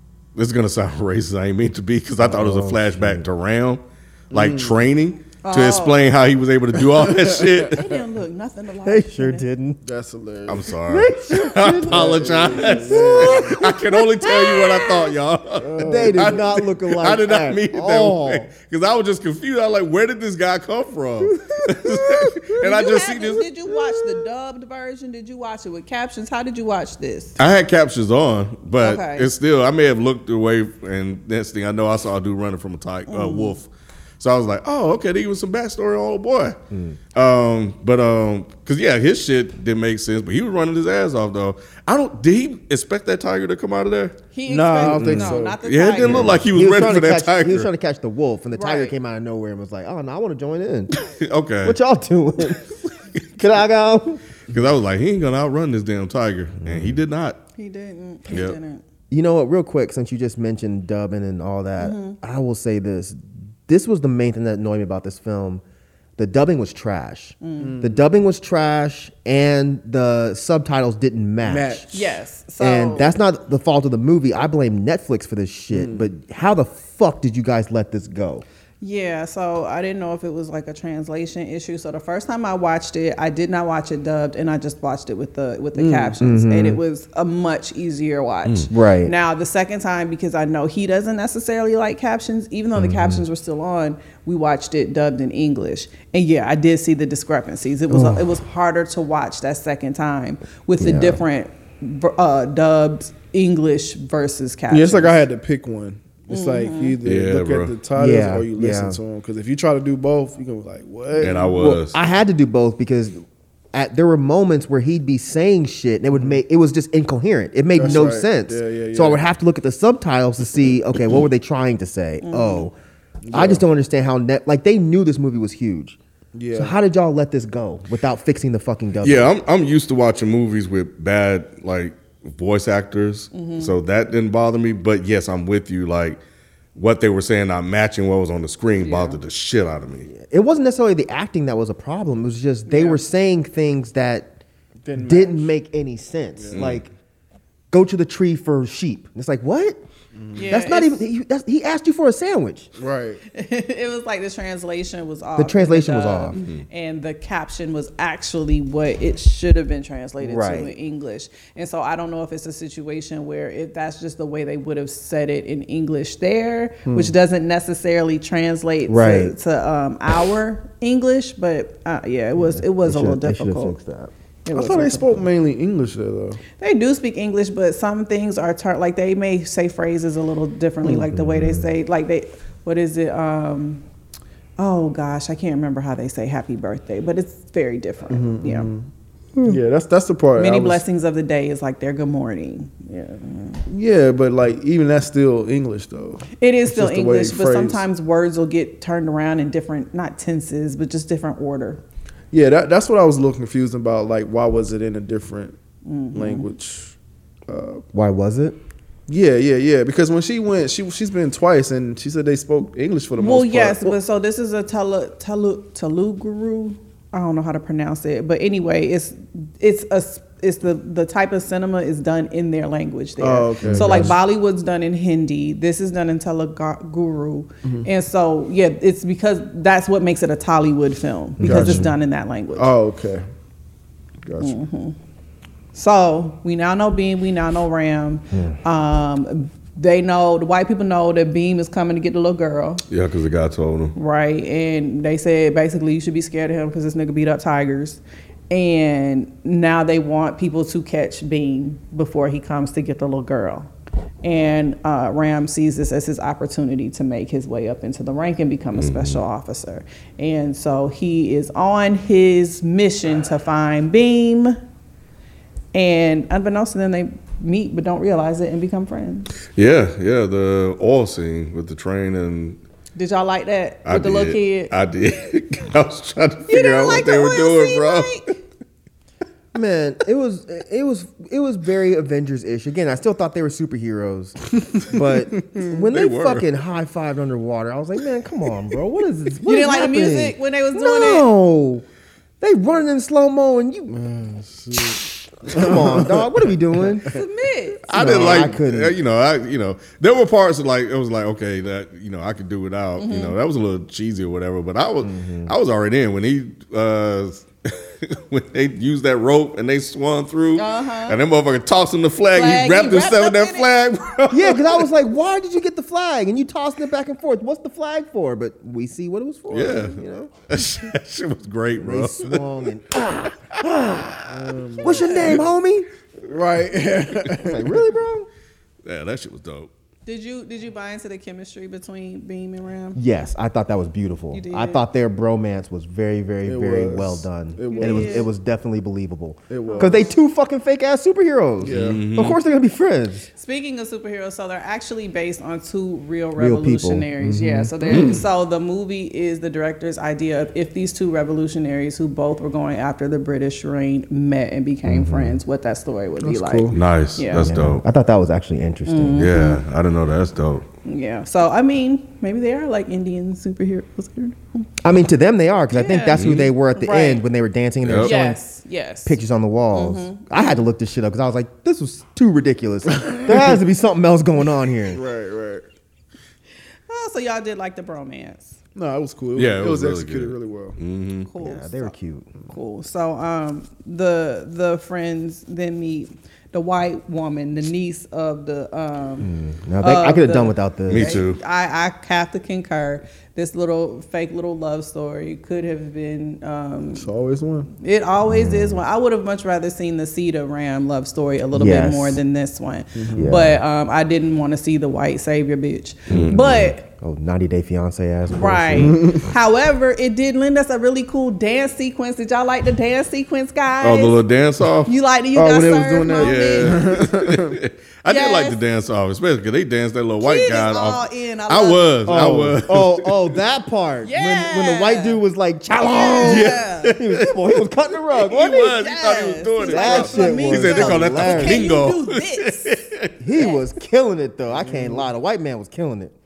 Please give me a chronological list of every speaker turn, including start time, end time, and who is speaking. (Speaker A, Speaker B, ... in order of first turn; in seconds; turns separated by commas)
Speaker A: 0.3-7.9, Speaker B: 2.2-3.2, Speaker C: 4.3-4.8, Speaker D: 5.4-6.1, Speaker C: 6.9-7.8, Speaker D: 7.7-9.4, Speaker B: 8.8-9.8, Speaker C: 9.8-10.7, Speaker A: 10.4-23.5, Speaker B: 10.9-13.8, Speaker C: 11.8-13.6, Speaker D: 14.2-15.1, Speaker C: 15.6-16.4, Speaker B: 15.8-18.5, Speaker B: 21.2-22.7, Speaker D: 22.6-27.4, Speaker A: 27.4-36.6, Speaker D: 28.8-29.3, Speaker D: 33.1-33.6, Speaker B: 36.7-37.0, Speaker A: 37.1-44.2, Speaker D: 44.3-46.4, Speaker C: 44.5-45.6, Speaker A: 44.9-47.7, Speaker B: 46.0-50.9, Speaker D: 48.5-48.9, Speaker A: 51.0-51.8, Speaker B: 51.6-52.6, Speaker B: 53.4-54.2, Speaker A: 54.5-57.4, Speaker D: 57.6-58.8, Speaker A: 58.3-58.6, Speaker B: 59.1-63.2, Speaker D: 61.8-62.2, Speaker B: 63.7-65.6, Speaker B: 66.2-71.8, Speaker D: 67.4-67.7, Speaker C: 67.6-68.0, Speaker C: 71.4-72.1, Speaker D: 71.9-73.1, Speaker B: 72.6-78.4, Speaker C: 75.7-76.1, Speaker D: 78.8-105.2, Speaker C: 85.8-86.1, Speaker B: 86.2-86.8, Speaker B: 88.7-89.1, Speaker B: 92.8-93.2, Speaker B: 97.9-98.3, Speaker B: 100.8-101.2, Speaker C: 104.7-111.5, Speaker D: 106.3-107.0, Speaker A: 107.0-107.7, Speaker B: 107.9-109.0, Speaker A: 111.2-112.0, Speaker B: 111.5-122.7, Speaker C: 116.1-116.4, Speaker C: 117.7-119.2, Speaker D: 122.2-122.7, Speaker C: 123.2-123.6, Speaker B: 123.3-126.0, Speaker C: 126.3-126.7, Speaker B: 126.5-129.3, Speaker A: 129.0-136.2, Speaker D: 133.3-133.7, Speaker A: 136.7-140.1, Speaker D: 138.8-139.2, Speaker B: 140.1-144.4, Speaker D: 142.7-143.0, Speaker C: 144.8-145.5, Speaker B: 145.0-146.9, Speaker C: 146.3-146.6, Speaker A: 146.5-146.8, Speaker B: 147.7-149.8, Speaker C: 150.1-150.5, Speaker D: 150.3-151.0, Speaker B: 150.4-152.7, Speaker C: 152.8-153.2, Speaker D: 153.3-173.7, Speaker B: 155.4-156.4, Speaker A: 156.3-156.6, Speaker B: 160.2-160.7, Speaker B: 168.9-169.3, Speaker B: 172.4-174.1, Speaker D: 174.4-175.2, Speaker C: 174.5-176.4, Speaker D: 176.6-183.8, Speaker B: 180.9-181.7, Speaker D: 184.6-188.7, Speaker C: 188.1-188.9, Speaker C: 189.4-190.8, Speaker D: 190.4-193.6, Speaker C: 193.7-197.8, Speaker D: 196.4-201.8, Speaker C: 202.3-205.6, Speaker D: 205.8-206.5, Speaker C: 206.1-206.9, Speaker C: 207.5-207.8, Speaker B: 207.9-208.6, Speaker C: 209.1-213.9, Speaker D: 213.2-232.7, Speaker C: 223.2-224.2, Speaker B: 223.6-224.2, Speaker B: 231.4-231.9, Speaker C: 231.4-231.9, Speaker C: 232.6-233.2, Speaker C: 234.2-234.6, Speaker D: 234.4-234.9, Speaker D: 235.7-242.8, Speaker B: 238.3-238.6, Speaker A: 242.9-243.9, Speaker D: 243.9-253.7, Speaker D: 254.2-264.6, Speaker A: 258.8-259.2, Speaker D: 265.7-269.3, Speaker A: 269.5-272.6, Speaker D: 272.9-274.7, Speaker A: 273.9-278.2, Speaker D: 276.5-278.4, Speaker B: 279.5-291.8, Speaker A: 285.9-286.4, Speaker D: 289.4-291.3, Speaker B: 292.4-293.9, Speaker C: 293.9-297.2, Speaker B: 295.4-297.1, Speaker D: 297.0-297.9, Speaker B: 297.9-298.9, Speaker A: 297.9-307.5, Speaker C: 297.9-298.5, Speaker D: 303.0-303.4, Speaker B: 305.0-305.5, Speaker A: 308.0-314.9, Speaker D: 310.6-311.2, Speaker D: 312.3-313.7, Speaker B: 314.3-320.3, Speaker A: 319.5-322.4, Speaker B: 321.8-324.3, Speaker C: 324.3-325.5, Speaker B: 324.8-325.9, Speaker D: 324.9-325.4, Speaker C: 326.2-327.8, Speaker B: 327.4-328.3, Speaker A: 328.8-329.7, Speaker D: 330.1-333.0, Speaker B: 332.9-343.3, Speaker D: 334.3-334.8, Speaker C: 336.4-338.3, Speaker D: 337.7-338.3, Speaker C: 339.5-340.1, Speaker D: 339.6-340.2, Speaker C: 341.6-342.0, Speaker A: 341.6-342.4, Speaker D: 343.3-357.5, Speaker B: 346.4-348.1, Speaker A: 347.9-348.2, Speaker B: 354.9-355.4, Speaker C: 356.2-356.8, Speaker A: 356.7-357.8, Speaker B: 357.3-359.3, Speaker D: 358.9-359.6, Speaker A: 359.1-360.6, Speaker D: 360.8-364.7, Speaker B: 364.8-368.4, Speaker D: 365.7-367.2, Speaker A: 366.1-366.5, Speaker A: 367.8-368.1, Speaker D: 368.0-369.2, Speaker B: 369.0-375.0, Speaker D: 369.7-370.6, Speaker C: 373.0-373.5, Speaker C: 374.9-375.7, Speaker D: 376.9-378.6, Speaker C: 378.7-380.8, Speaker A: 379.4-381.3, Speaker D: 381.2-381.9, Speaker B: 381.4-382.3, Speaker D: 382.5-397.1, Speaker B: 389.2-391.2, Speaker A: 390.9-391.4, Speaker C: 396.9-397.7, Speaker D: 397.8-406.8, Speaker B: 398.2-398.8, Speaker B: 401.5-402.2, Speaker C: 402.9-403.3, Speaker B: 403.1-403.6, Speaker A: 406.1-406.7, Speaker B: 406.9-409.1, Speaker D: 408.3-414.2, Speaker C: 408.8-409.3, Speaker A: 413.8-414.9, Speaker D: 414.9-416.8, Speaker C: 415.3-417.6, Speaker A: 416.2-423.3, Speaker D: 418.1-418.6, Speaker D: 420.2-421.9, Speaker B: 422.1-428.7, Speaker D: 424.0-425.2, Speaker D: 425.8-427.0, Speaker A: 426.2-427.6, Speaker A: 428.1-433.1, Speaker D: 428.4-432.8, Speaker B: 429.6-431.7, Speaker B: 433.2-436.1, Speaker D: 433.3-433.6, Speaker C: 434.5-435.1